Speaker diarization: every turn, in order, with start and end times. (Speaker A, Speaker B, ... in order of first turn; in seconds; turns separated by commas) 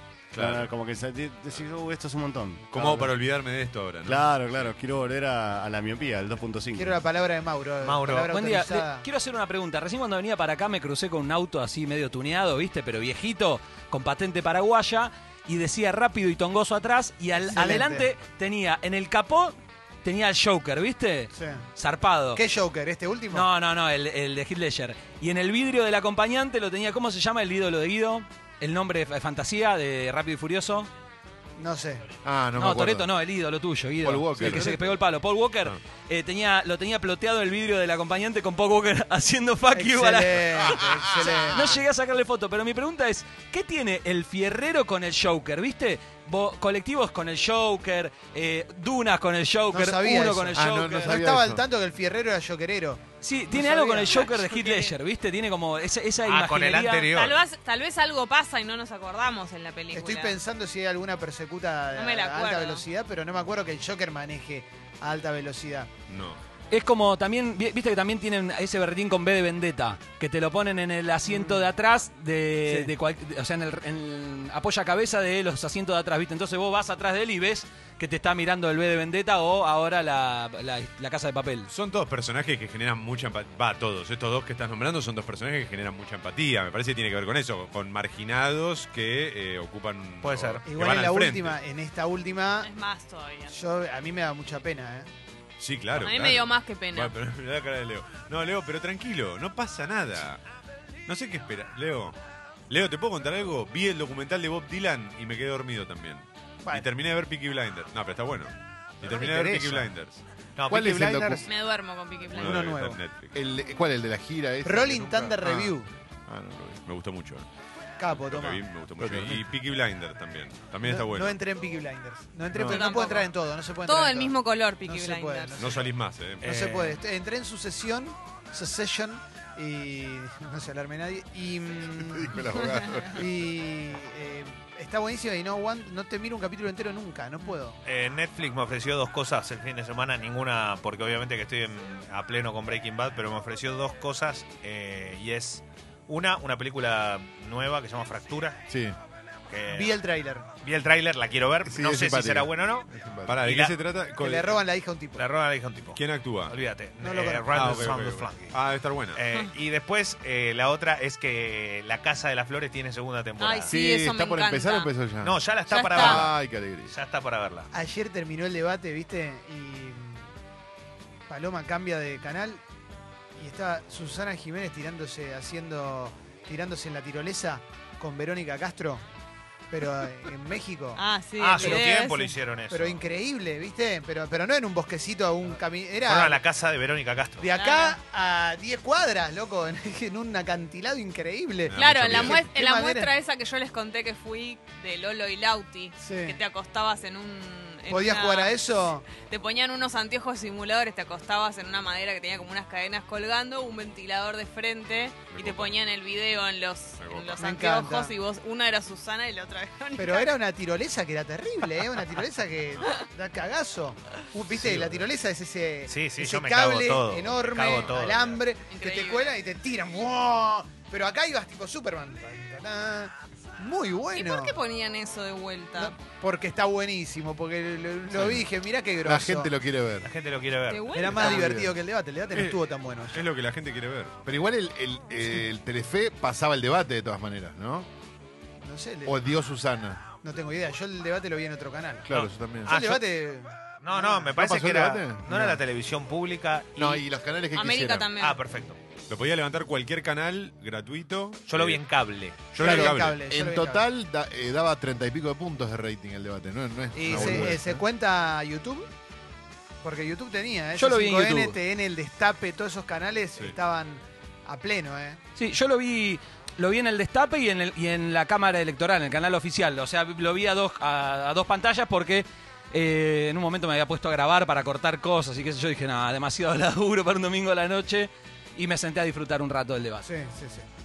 Speaker A: 0.3-0.7, Speaker B: 0.3-3.1, Speaker A: 2.7-4.7, Speaker B: 4.0-7.0, Speaker C: 6.7-9.1, Speaker D: 7.8-8.3, Speaker E: 8.3-22.4, Speaker C: 17.4-18.1, Speaker C: 21.3-21.6, Speaker C: 22.3-23.5, Speaker E: 23.3-30.9, Speaker C: 31.6-32.1, Speaker F: 32.2-33.1, Speaker E: 32.5-51.2, Speaker F: 34.0-34.9, Speaker C: 39.7-41.8, Speaker F: 40.6-41.6, Speaker C: 49.7-54.3, Speaker F: 50.5-51.6, Speaker E: 53.2-57.1, Speaker G: 54.1-54.9, Speaker D: 56.2-57.4, Speaker G: 57.1-60.4, Speaker C: 59.9-65.9, Speaker G: 61.9-62.8, Speaker A: 66.1-66.4, Speaker E: 66.7-81.7, Speaker C: 71.2-71.7, Speaker C: 72.7-72.9, Speaker A: 81.7-91.6, Speaker D: 90.2-90.6, Speaker C: 90.7-92.7, Speaker G: 92.6-93.5, Speaker C: 93.5-95.1, Speaker A: 95.6-100.4, Speaker G: 96.0-97.1, Speaker A: 101.1-102.1, Speaker A: 102.7-110.2, Speaker D: 109.0-109.9, Speaker D: 110.5-111.5, Speaker F: 110.7-111.5, Speaker G: 111.5-112.7, Speaker A: 112.3-113.3, Speaker C: 112.4-113.0, Speaker F: 113.3-115.7, Speaker C: 114.6-115.9, Speaker A: 116.3-117.4, Speaker C: 118.0-118.6, Speaker A: 118.1-121.4, Speaker F: 119.0-119.4, Speaker C: 120.8-125.9, Speaker F: 122.5-122.8, Speaker G: 122.7-123.3, Speaker G: 123.8-125.7, Speaker A: 125.6-126.5, Speaker C: 126.4-132.5, Speaker D: 126.4-127.0, Speaker F: 132.0-133.3, Speaker C: 133.1-137.8, Speaker D: 137.8-148.6, Speaker F: 148.7-149.0, Speaker D: 149.5-150.0, Speaker C: 149.7-150.5, Speaker D: 150.6-152.9, Speaker F: 151.6-153.3, Speaker A: 153.2-154.6, Speaker D: 153.4-153.8, Speaker C: 154.2-155.2, Speaker D: 155.1-158.5, Speaker A: 155.9-156.6, Speaker C: 157.0-157.9, Speaker A: 157.5-159.2, Speaker D: 159.1-163.7, Speaker G: 163.4-164.9, Speaker F: 163.7-165.4, Speaker D: 165.2-166.3, Speaker G: 165.7-166.2, Speaker F: 165.9-166.9, Speaker D: 166.9-167.7, Speaker C: 167.7-170.3, Speaker C: 171.3-172.6, Speaker C: 173.3-179.0, Speaker C: 179.7-181.0, Speaker G: 180.9-182.3, Speaker D: 181.4-183.0, Speaker C: 181.6-181.9, Speaker C: 182.7-186.4, Speaker D: 186.0-187.5, Speaker C: 187.4-193.1, Speaker G: 187.5-188.0, Speaker A: 191.7-192.4, Speaker G: 191.7-210.3, Speaker C: 196.0-196.4, Speaker C: 197.9-199.1, Speaker A: 205.3-205.8, Speaker A: 207.0-207.4, Speaker C: 207.4-208.1, Speaker C: 210.0-224.6, Speaker D: 215.9-218.4, Speaker G: 218.7-219.3, Speaker G: 224.1-225.9, Speaker C: 225.8-229.5, Speaker F: 228.1-228.5, Speaker F: 229.0-230.1, Speaker D: 230.0-231.3, Speaker G: 230.7-231.3, Speaker C: 230.9-233.2, Speaker F: 231.1-231.8, Speaker A: 232.3-234.1, Speaker F: 234.2-237.9, Speaker C: 238.6-239.2, Speaker F: 239.0-240.0, Speaker C: 240.2-242.1, Speaker F: 242.1-242.7, Speaker C: 242.7-244.3, Speaker D: 242.7-243.0, Speaker D: 243.8-247.0, Speaker F: 244.3-245.6, Speaker F: 246.8-248.1, Speaker G: 247.5-248.4, Speaker D: 248.2-248.8, Speaker A: 249.1-251.8, Speaker D: 251.5-252.5, Speaker A: 252.5-253.2, Speaker C: 252.6-253.8, Speaker F: 252.7-257.8, Speaker C: 256.9-258.9, Speaker A: 257.2-257.5, Speaker C: 259.8-265.2, Speaker E: 260.8-261.6, Speaker E: 265.4-280.1, Speaker C: 280.0-280.7